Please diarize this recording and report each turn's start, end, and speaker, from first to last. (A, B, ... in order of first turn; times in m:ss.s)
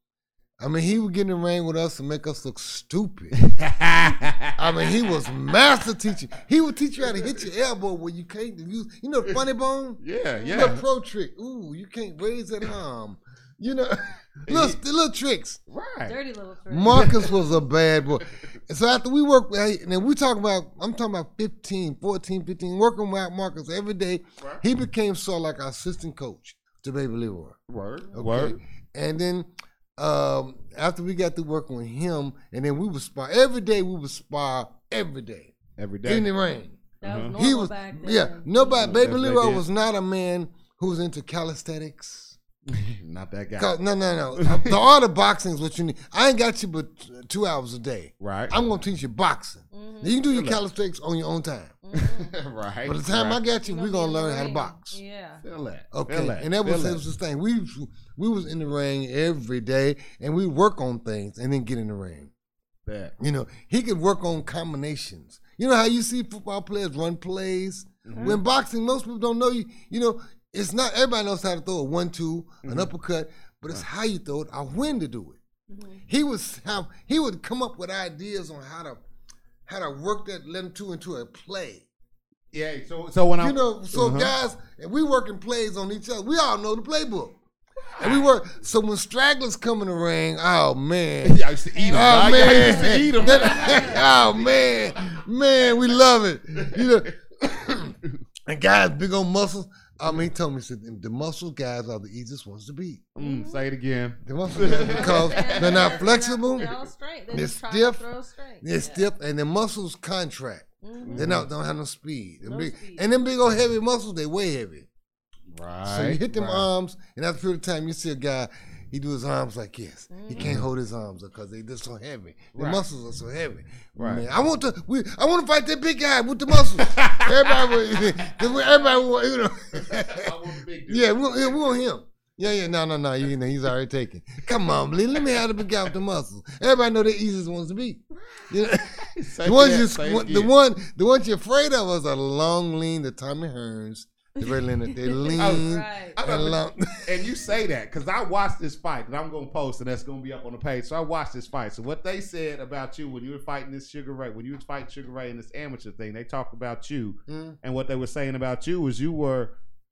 0:00.6-0:03.4 A
0:03.4-0:04.6 B
0:04.5-0:15.6 A
0:10.0-0:10.8 B
0:10.4-0:10.8 C
0:14.5-0:14.8 B
0:15.7-0:16.2 B
0:16.0-0:17.6 C
0:16.7-0:27.6 A
0:16.9-0:17.3 B
0:27.7-0:28.6 B
0:28.1-0:36.8 A
0:35.8-0:36.3 B
0:37.0-0:39.0 C
0:37.0-0:37.4 B
0:37.4-0:42.4 A
0:38.8-0:39.6 B
0:42.7-0:43.7 B
0:43.6-0:51.8 A
0:44.4-0:44.8 B
0:48.2-0:48.6 B
0:49.7-0:50.2 C
0:50.3-0:50.6 B
0:51.8-0:52.4 C
0:52.0-0:53.4 B
0:52.8-0:55.0 A
0:53.6-0:55.4 C
0:55.4-0:57.0 B
0:55.9-1:02.3 A
1:02.9-1:03.1 B
1:03.2-1:15.4 A
1:08.0-1:08.4 B
1:12.6-1:12.9 B
1:15.7-1:16.0 C
1:16.1-1:19.0 A
1:19.7-1:21.8 A
1:22.5-1:24.3 B
1:23.4-1:27.4 A
1:27.9-1:28.3 B
1:28.0-1:38.0 A
1:31.2-1:35.2 B
1:31.7-1:34.1 C
1:36.6-1:37.5 B
1:38.5-1:43.1 A
1:43.2-1:46.8 B
1:43.2-1:43.6 C
1:44.2-1:46.7 A
1:44.8-1:49.1 C
1:47.3-1:48.0 A
1:48.6-1:54.9 A
1:50.8-1:51.3 C
1:51.0-1:51.5 B
1:52.4-1:53.1 C
1:55.5-1:56.7 B
1:55.8-2:10.3 A
2:00.1-2:00.5 C
2:00.4-2:00.7 B
2:02.6-2:02.8 B
2:04.0-2:04.3 B
2:06.7-2:08.5 B
2:09.7-2:11.8 B
2:10.9-2:27.3 A
2:18.1-2:20.5 B
2:24.4-2:26.2 C
2:25.4-2:39.5 B
2:37.3-2:37.6 A